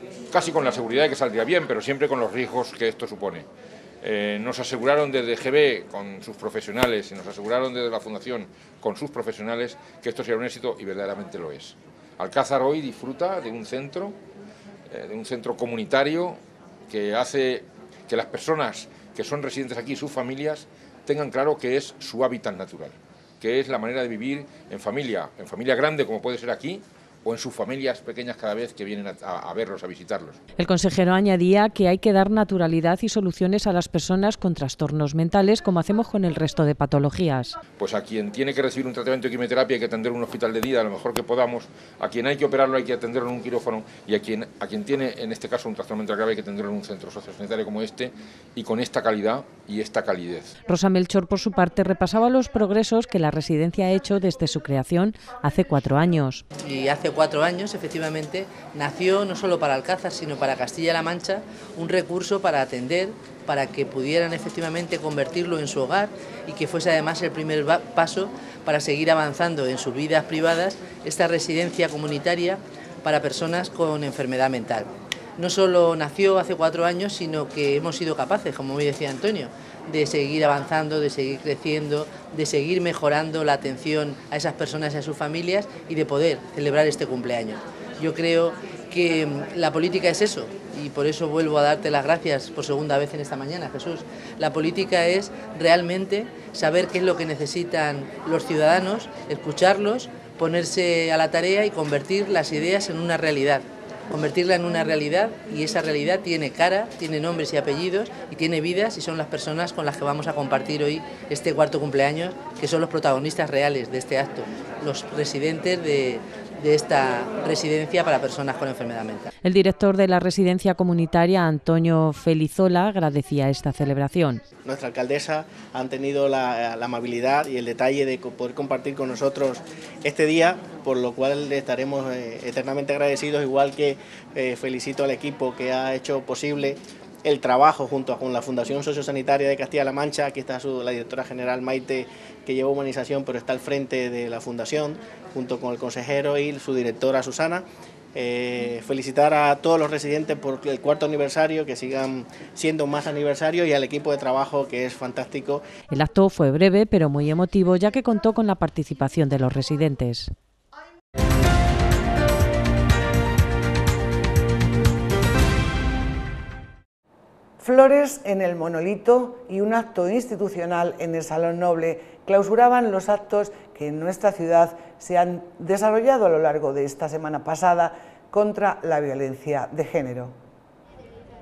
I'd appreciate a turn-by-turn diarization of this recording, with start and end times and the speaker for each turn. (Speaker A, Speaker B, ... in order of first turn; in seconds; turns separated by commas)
Speaker A: 0.3-3.5, Speaker A: 4.0-14.2, Speaker A: 14.9-30.4, Speaker B: 30.6-37.6, Speaker A: 37.8-50.5, Speaker B: 50.7-56.4, Speaker C: 56.6-119.3, Speaker B: 119.4-124.4, Speaker D: 124.6-147.6, Speaker D: 148.1-155.6, Speaker B: 155.9-160.3, Speaker E: 167.6-180.3